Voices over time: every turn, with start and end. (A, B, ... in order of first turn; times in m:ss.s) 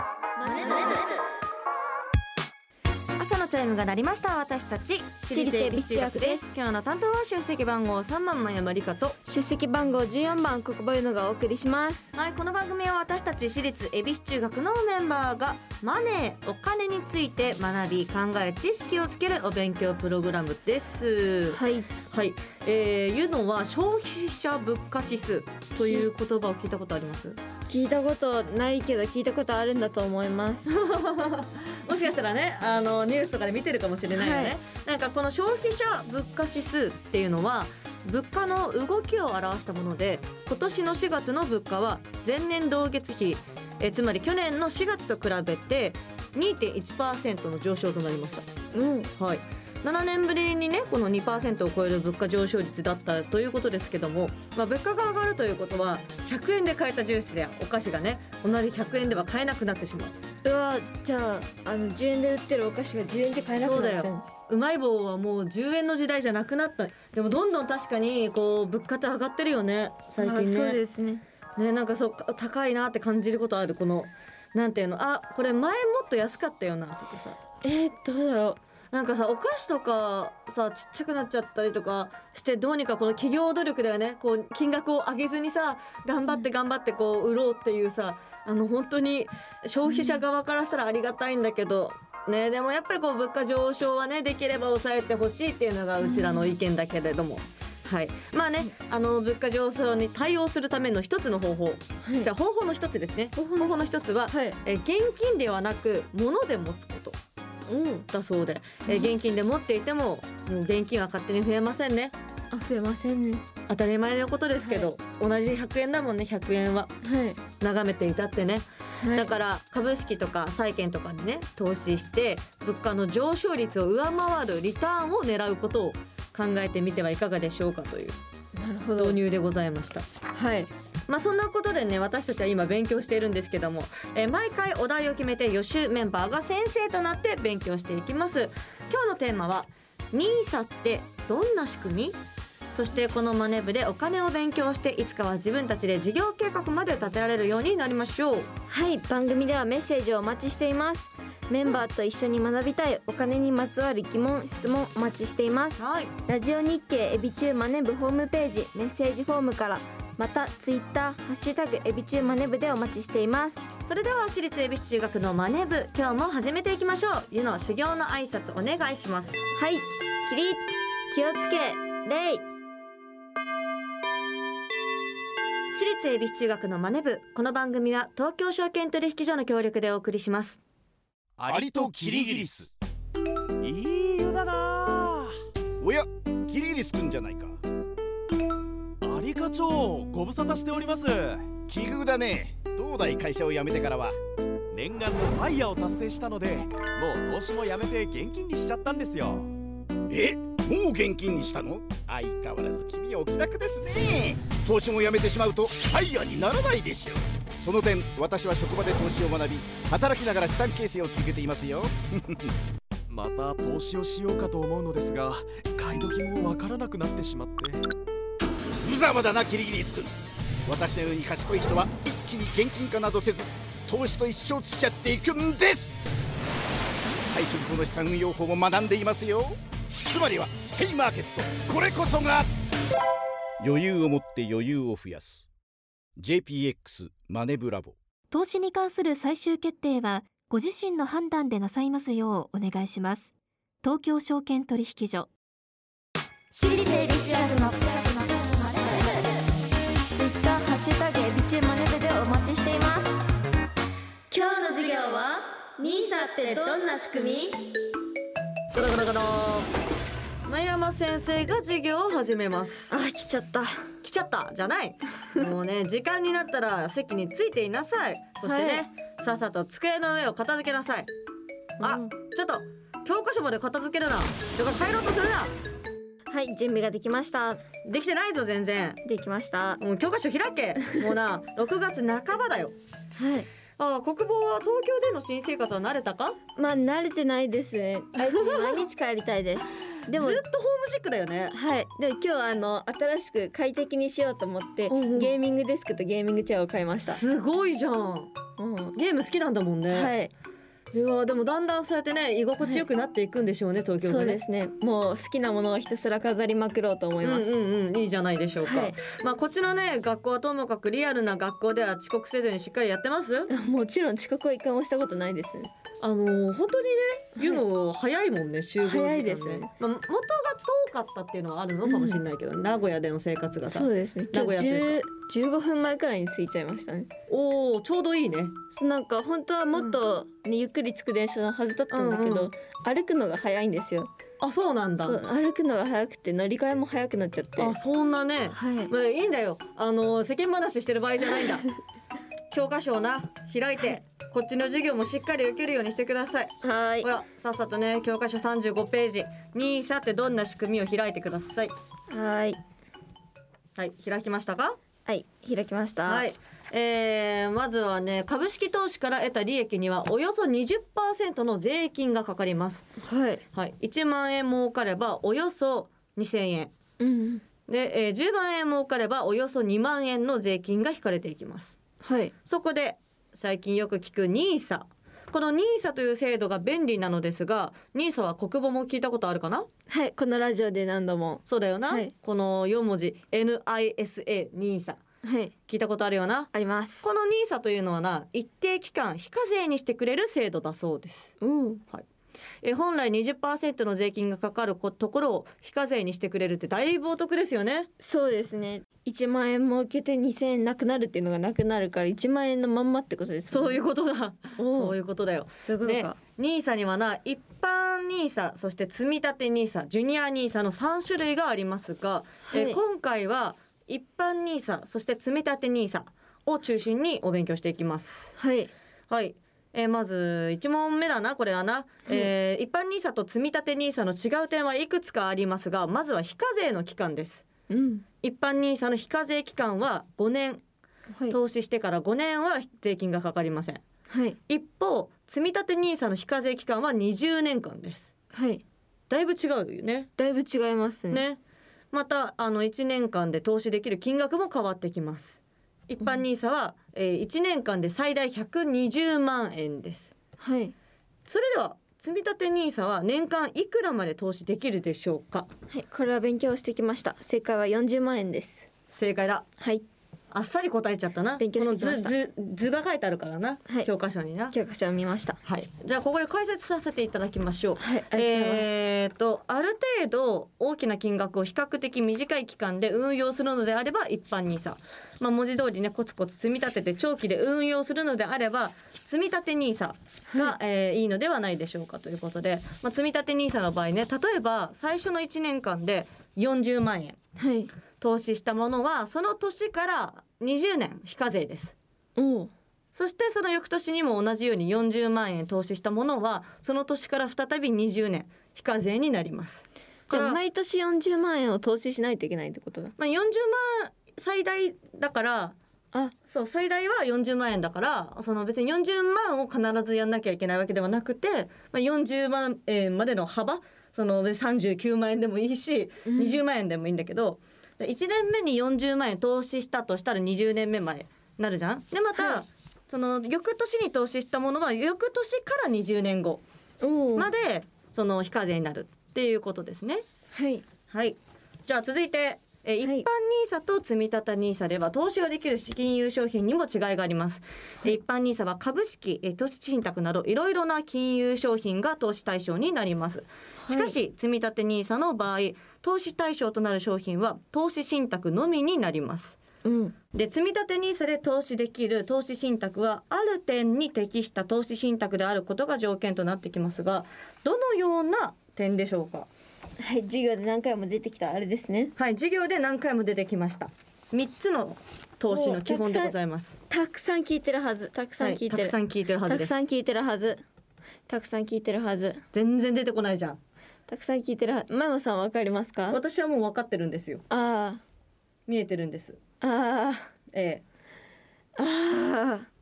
0:00.4-0:01.2 A
0:00.4-0:01.2 B
0:03.2-0:09.2 B
0:05.2-0:06.4 A
0:09.3-0:12.1 A
0:12.1-0:21.6 B
0:21.5-0:21.9 A
0:22.1-0:27.4 B
0:27.7-0:30.7 A
0:30.7-0:48.5 B
0:34.1-0:34.6 A
0:48.7-0:49.1 A
0:49.2-1:00.1 B
1:00.4-1:04.2 A
1:03.6-1:10.8 B
1:10.2-1:11.2 A
1:11.6-1:17.4 B
1:17.6-1:18.6 A
1:18.9-1:47.2 B
1:29.8-1:30.2 A
1:36.0-1:36.5 A
1:42.0-1:42.3 A
1:43.4-1:44.6 A
1:47.7-1:48.1 A
1:48.1-1:52.1 B
1:48.8-1:49.1 A
1:52.5-1:53.4 A
1:53.7-1:56.9 B
1:54.6-1:54.9 A
1:57.0-1:57.4 A
1:57.6-2:08.2 B
1:59.0-1:59.3 A
2:08.6-2:09.2 A
2:09.0-2:10.1 B
2:10.3-2:10.7 A
2:11.1-2:22.2 B
2:22.7-2:28.5 B
2:28.7-2:43.6 A
2:35.8-2:36.1 B
2:43.8-2:49.4 B
2:49.5-2:52.4 A
2:55.7-3:00.6 B
3:01.4-3:02.5 C
3:01.5-3:02.7 D
3:03.6-3:05.3 C
3:05.8-3:07.6 D
3:09.0-3:11.5 C
3:11.6-3:14.2 D
3:14.7-3:19.5 C
3:20.1-3:32.5 D
3:33.1-3:37.8 C
3:38.8-3:40.1 D
3:40.6-3:46.0 D
3:47.2-3:52.5 D
3:53.6-3:55.4 D
3:56.2-3:57.9 D
3:58.3-4:05.3 E
4:07.0-4:09.2 A
4:08.0-4:08.4 E
4:10.1-4:13.2 A
4:14.3-4:17.6 B
4:14.3-4:17.5 A
4:18.7-4:19.7 B
4:20.5-4:23.0 B
4:22.9-4:23.8 A
4:24.0-4:31.1 B
4:28.4-4:28.8 A
4:31.8-4:32.1 A
4:31.8-4:35.5 B
4:36.3-4:37.6 A
4:37.8-4:39.0 B
4:39.0-4:39.8 A
4:39.8-4:42.7 B
4:43.2-4:43.5 A
4:43.8-4:46.4 B
4:46.6-4:50.4 A
4:48.2-4:48.8 B
4:50.1-4:51.5 B
4:51.5-4:57.2 A
4:54.9-4:55.3 B
4:57.0-4:58.3 B
4:58.6-4:59.0 A
4:58.9-5:00.1 B
4:59.9-5:00.3 A
5:00.9-5:04.4 B
5:04.0-5:07.5 A
5:07.2-5:13.5 B
5:08.6-5:09.0 A
5:13.5-5:15.7 A
5:16.0-5:25.0 B
5:18.8-5:19.7 A
5:21.8-5:22.2 A
5:23.7-5:27.1 A
5:27.3-5:28.6 B
5:28.7-5:34.1 A
5:31.9-5:32.5 B
5:34.4-5:35.2 B
5:35.0-5:37.7 A
5:37.6-5:41.6 B
5:38.5-5:38.9 A
5:42.5-5:51.7 B
5:46.6-5:47.1 A
5:52.1-5:52.6 A
5:53.8-5:54.8 B
5:55.0-5:56.2 A
5:56.0-6:02.9 B
6:03.0-6:03.4 A
6:03.5-6:06.7 B
6:07.0-6:07.4 A
6:07.7-6:11.8 B
6:12.0-6:12.3 A
6:12.4-6:19.7 B
6:19.9-6:22.1 A
6:21.5-6:25.0 B
6:25.2-6:25.5 A
6:25.7-6:26.5 B
6:26.5-6:27.0 A
6:27.0-6:31.3 B
6:31.4-6:31.8 A
6:32.6-6:37.9 B
6:38.0-6:43.8 A
6:43.5-6:58.4 B
6:44.6-6:45.0 A
6:45.6-6:46.2 A
6:52.5-6:52.8 A
6:58.4-6:58.7 A
6:59.1-7:07.4 B
7:07.7-7:08.0 A
7:08.2-7:10.6 B
7:11.3-7:13.8 B
7:14.1-7:14.4 A
7:14.5-7:18.1 B
7:18.3-7:18.6 A
7:19.1-7:20.1 B
7:20.2-7:21.2 A
7:21.1-7:21.4 B
7:21.9-7:30.1 B
7:30.4-7:30.7 A
7:31.3-7:35.5 B
7:35.7-7:38.7 A
7:38.9-7:39.4 B
7:39.6-7:39.8 A
7:40.3-7:44.5 B
7:41.4-7:42.1 A
7:44.5-7:45.4 A
7:45.4-8:07.2 B
7:47.8-7:48.8 A
8:07.4-8:07.7 A
8:08.0-8:11.7 B
8:12.2-8:12.5 A
8:12.9-8:20.4 B
8:20.1-8:22.9 A
8:23.0-8:25.5 B
8:26.2-8:46.4 B
8:36.0-8:36.4 A
8:42.2-8:42.4 A
8:46.8-8:47.3 A
8:47.2-8:50.0 B
8:50.3-8:50.6 A
8:50.9-9:09.4 B
9:03.6-9:04.0 A
9:09.6-9:09.9 A
9:10.1-9:19.3 B
9:19.8-9:21.9 A
9:22.0-9:26.6 B
9:25.3-9:26.1 A
9:26.7-9:30.4 A
9:28.2-9:29.6 B
9:31.1-9:32.2 A
9:32.3-9:33.4 B
9:33.9-9:36.0 A
9:35.9-9:37.2 B
9:37.3-9:37.8 A
9:38.5-9:39.2 B
9:39.4-9:40.1 A
9:40.3-9:40.6 B
9:41.6-9:42.5 A